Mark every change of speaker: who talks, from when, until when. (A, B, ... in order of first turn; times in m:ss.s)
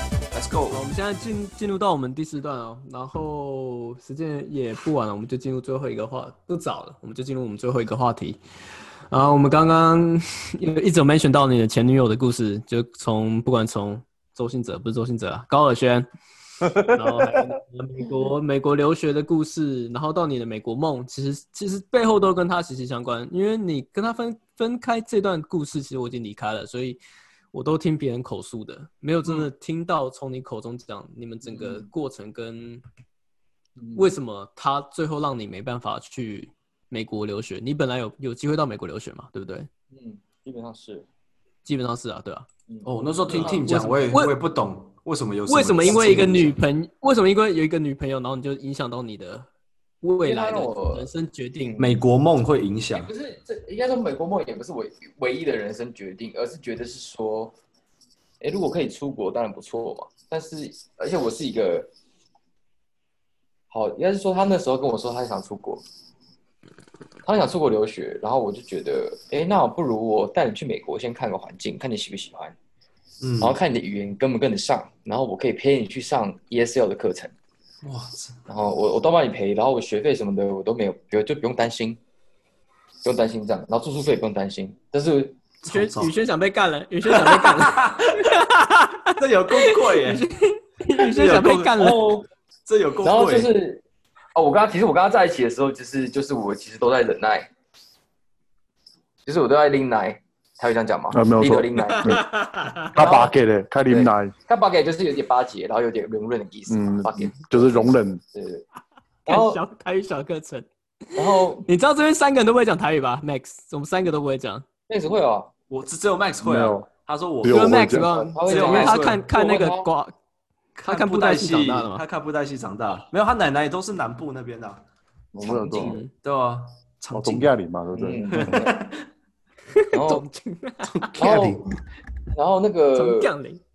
0:00.3-0:00.8 A
0:00.7-0:08.4 B
0:09.1-0:16.1 B
0:16.7-0:27.0 B
0:27.5-0:32.8 B
0:31.5-0:31.9 C
0:33.8-0:34.1 C
0:34.0-0:39.7 B
0:39.9-0:41.0 C
0:41.6-0:42.4 B
0:42.7-0:43.7 C
0:42.8-0:46.6 A
0:43.3-0:44.3 B
0:45.5-0:49.5 B
0:50.0-0:51.8 B
0:50.2-0:51.1 C
0:51.8-0:53.1 A
0:52.9-0:57.5 C
0:58.4-1:01.9 C
1:03.7-1:05.8 C
1:07.2-1:12.5 C
1:13.2-1:13.6 A
1:13.4-1:17.3 C
1:17.8-1:18.4 A
1:18.5-1:22.0 C
1:23.0-1:25.4 C
1:25.6-1:26.1 A
1:25.7-1:32.0 B
1:27.1-1:28.3 A
1:29.2-1:30.2 A
1:31.0-1:32.0 A
1:31.8-1:32.2 C
1:32.6-1:33.5 A
1:33.0-1:33.8 C
1:34.3-1:37.5 C
1:39.2-1:42.2 C
1:41.1-1:42.2 D
1:41.8-1:42.9 B
1:42.9-1:44.3 D
1:43.0-1:43.3 C
1:43.9-1:48.6 C
1:46.7-1:48.2 D
1:49.2-1:54.6 B
1:49.3-1:49.6 C
1:51.2-1:51.6 C
1:54.9-1:55.5 C
1:55.7-1:59.2 A
1:56.4-1:56.9 D
1:57.4-1:58.1 D
1:57.4-2:00.1 B
1:58.0-1:59.9 C
2:00.8-2:04.8 A
2:00.8-2:02.0 B
2:05.3-2:06.0 D
2:05.4-2:06.0 C
2:05.7-2:06.1 B
2:06.2-2:07.5 A
2:07.1-2:08.6 D
2:07.9-2:08.8 C
2:08.3-2:09.0 A
2:09.9-2:10.2 C
2:09.9-2:11.1 B
2:10.8-2:11.7 A
2:11.2-2:11.6 C
2:12.3-2:13.3 C
2:12.9-2:13.6 B